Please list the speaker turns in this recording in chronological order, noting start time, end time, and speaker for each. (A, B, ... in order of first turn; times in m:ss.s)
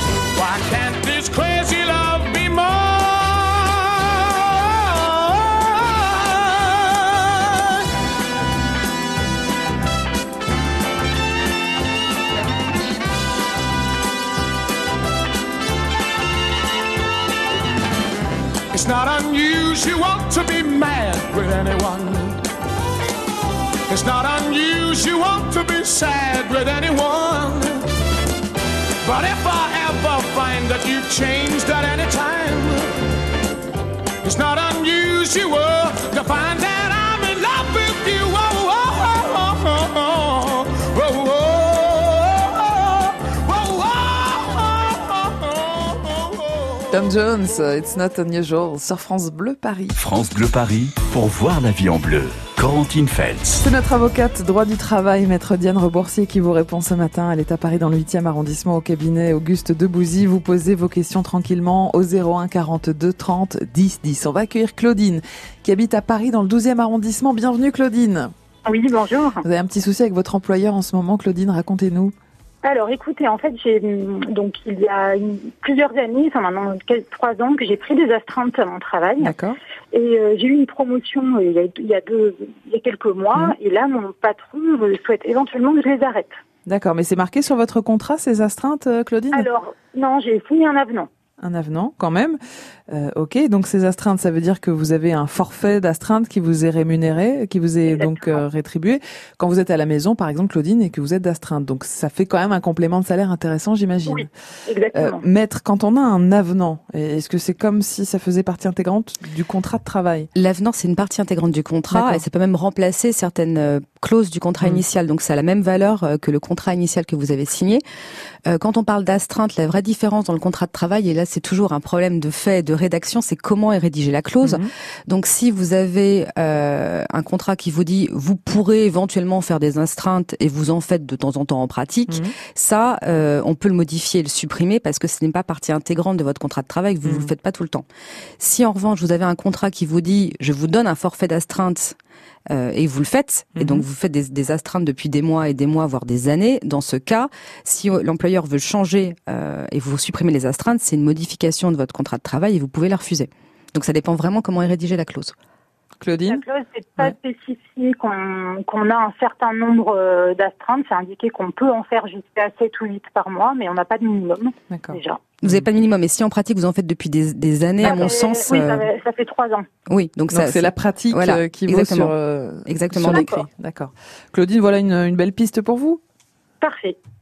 0:00.3-0:07.6 A
0:18.7-0:22.4 A
0:23.9-0:27.8 A
0:29.0-0:33.0 A
0:34.2-0:46.8 A
0:46.9-0:49.9 B
0:50.0-0:53.6 C
0:53.6-1:08.3 B
1:08.6-1:09.4 D
1:09.4-1:12.1 B
1:12.6-1:19.4 D
1:19.2-1:19.6 B
1:19.9-1:26.4 D
1:26.6-1:29.4 B
1:29.3-1:31.1 D
1:31.4-1:32.4 B
1:32.9-1:44.3 B
1:37.9-1:38.4 D
1:44.0-1:45.2 D
1:44.9-1:50.3 B
1:50.3-1:57.8 E
1:51.9-1:52.2 B
1:58.4-2:17.8 E
2:04.4-2:04.7 B
2:12.1-2:12.3 B
2:17.0-2:17.3 B
2:18.4-2:22.0 E
2:22.5-2:35.3 E
2:23.6-2:23.8 B
2:36.0-2:36.4 B
2:36.3-2:45.2 D
2:44.7-2:45.6 B
2:45.4-2:48.8 E
2:47.8-2:48.7 B
2:47.8-2:49.7 D
2:49.9-2:52.1 E
2:50.3-2:56.0 B
2:52.6-2:53.3 E
2:53.1-2:53.4 D
2:56.6-2:57.0 D